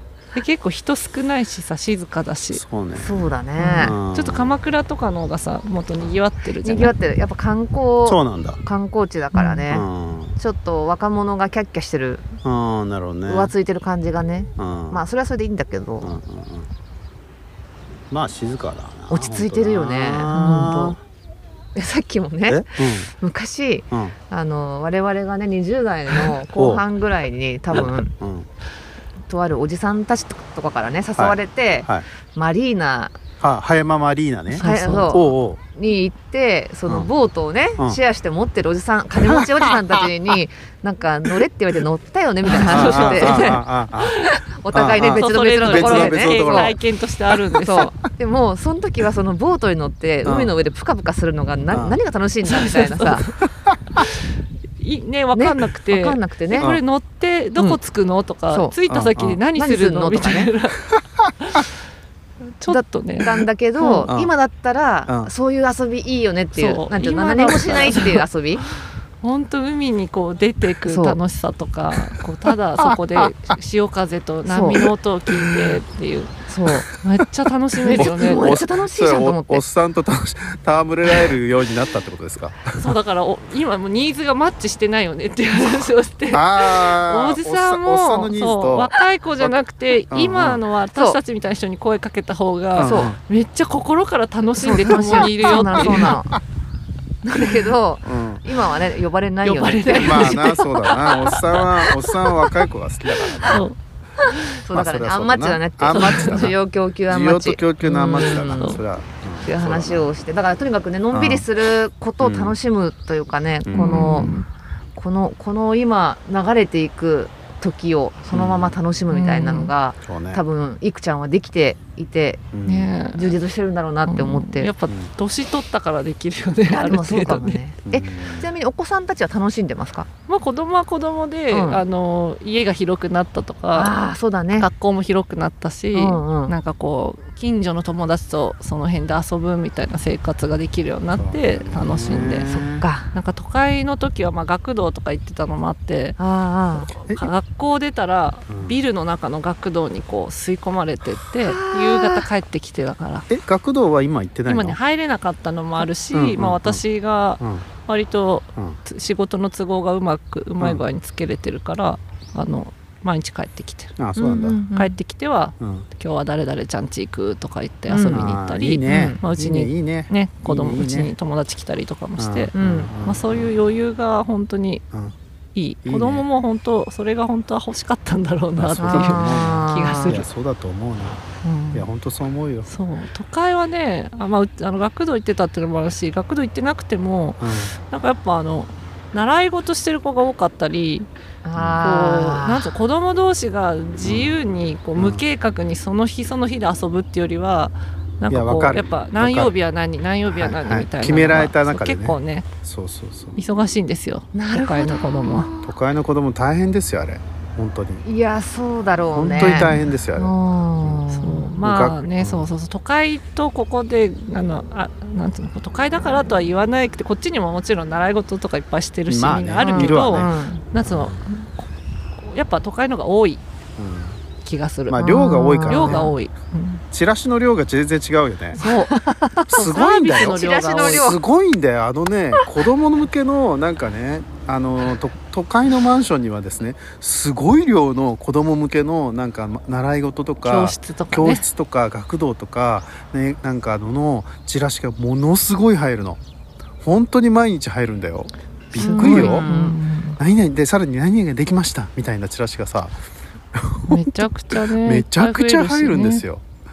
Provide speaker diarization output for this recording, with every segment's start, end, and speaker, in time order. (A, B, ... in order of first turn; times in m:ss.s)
0:00.3-0:02.6 A
0:02.5-0:04.6 B
0:02.9-0:04.0 C
0:03.6-0:06.9 A
0:06.6-0:12.2 C
0:08.0-0:08.6 B
0:09.3-0:09.7 A
0:09.7-0:10.4 B
0:12.4-0:13.5 B
0:13.2-0:16.2 C
0:14.6-0:15.0 B
0:16.0-0:16.7 B
0:18.1-0:21.0 B
0:19.1-0:21.0 C
0:20.3-0:20.7 A
0:21.7-0:28.1 C
0:22.5-0:23.1 B
0:23.9-0:24.2 B
0:26.5-0:26.8 B
0:27.7-0:28.5 B
0:29.3-0:33.2 C
0:31.2-0:32.0 B
0:33.4-0:35.6 B
0:34.5-0:35.2 A
0:34.6-0:43.6 C
0:36.8-0:37.1 B
0:39.3-0:40.0 B
0:42.5-0:44.3 A
0:42.5-0:44.2 B
0:44.5-0:46.8 C
0:44.7-0:46.8 B
0:45.0-0:47.9 A
0:47.3-0:47.6 B
0:47.6-0:53.2 C
0:50.2-0:50.6 B
0:51.7-0:52.0 B
0:52.4-0:53.3 A
0:54.8-1:01.7 A
0:55.3-0:56.7 C
0:58.5-0:58.8 C
0:58.9-0:59.4 B
0:59.5-1:00.5 C
1:02.6-1:04.1 A
1:02.7-1:08.6 C
1:04.1-1:04.3 B
1:06.5-1:08.2 A
1:09.2-1:16.3 A
1:10.8-1:11.2 C
1:12.8-1:13.3 B
1:14.4-1:14.8 C
1:15.3-1:15.7 B
1:16.5-1:16.8 C
1:17.0-1:18.6 A
1:17.8-1:19.6 C
1:17.8-1:22.9 B
1:22.8-1:36.2 A
1:26.3-1:29.6 B
1:30.1-1:30.6 B
1:32.8-1:33.2 B
1:32.8-1:33.1 C
1:34.6-1:36.4 C
1:34.9-1:36.2 B
1:37.2-1:40.4 C
1:38.0-1:38.4 B
1:39.4-1:42.5 A
1:39.9-1:43.7 B
1:43.4-1:43.8 A
1:44.5-1:48.8 C
1:44.7-1:46.6 B
1:45.9-1:46.5 A
1:47.1-1:50.1 B
1:48.0-1:48.8 A
1:49.4-1:54.4 C
1:51.1-1:51.5 B
1:52.2-1:52.6 B
1:53.6-1:54.3 B
1:53.7-1:54.5 A
1:54.9-2:02.4 C
1:58.3-1:58.8 B
1:59.1-1:59.7 A
2:00.0-2:00.4 B
2:02.5-2:02.9 B
2:02.6-2:03.4 A
2:03.1-2:04.7 C
2:04.0-2:07.6 A
2:06.7-2:10.1 C
2:07.8-2:08.5 B
2:10.3-2:13.9 A
2:11.5-2:11.8 C
2:13.7-2:14.7 C
2:14.6-2:22.5 A
2:15.9-2:16.5 C
2:21.2-2:22.8 B
2:22.1-2:23.1 C
2:23.1-2:26.2 A
2:26.2-2:26.9 C
2:26.9-2:33.3 A
2:28.5-2:28.8 B
2:31.4-2:32.3 C
2:33.3-2:34.8 B
2:34.5-2:44.0 A
2:36.1-2:36.8 B
2:37.4-2:37.7 B
2:44.0-2:44.6 B
2:44.2-2:45.0 C
2:44.7-2:54.8 A
2:45.6-2:45.9 B
2:47.9-2:48.3 C
2:48.1-2:51.1 B
2:48.8-2:49.2 C
2:52.2-2:53.5 B
2:52.5-2:52.9 C
2:55.5-3:00.3 A
2:55.8-2:56.2 B
2:58.6-3:02.7 B
2:58.9-3:00.2 C
3:01.4-3:01.8 A
3:02.7-3:11.1 A
3:07.4-3:07.7 B
3:11.4-3:12.7 C
3:11.6-3:11.8 B
3:11.8-3:22.5 A
3:14.0-3:14.3 B
3:15.0-3:15.2 B
3:18.3-3:19.5 B
3:20.3-3:23.4 B
3:23.4-3:25.5 A
3:24.3-3:25.7 C
3:25.6-3:28.0 B
3:28.0-3:31.5 C
3:29.1-3:31.0 B
3:31.1-3:41.6 A
3:31.6-3:32.5 B
3:39.1-3:40.3 B
3:39.6-3:40.6 C
3:40.8-3:41.2 B
3:42.2-3:43.4 A
3:43.8-3:44.2 B
3:44.4-3:45.0 A
3:44.9-3:46.1 B
3:45.0-3:46.1 C
3:45.7-3:46.8 A
3:46.9-3:48.6 B
3:48.6-3:48.9 A
3:48.6-3:51.2 C
3:49.4-4:06.2 B
3:49.5-3:51.1 A
4:00.4-4:01.4 A
4:06.8-4:09.5 B
4:08.7-4:10.2 A
4:08.8-4:09.7 C
4:10.2-4:13.0 B
4:13.5-4:16.4 B
4:13.8-4:16.2 A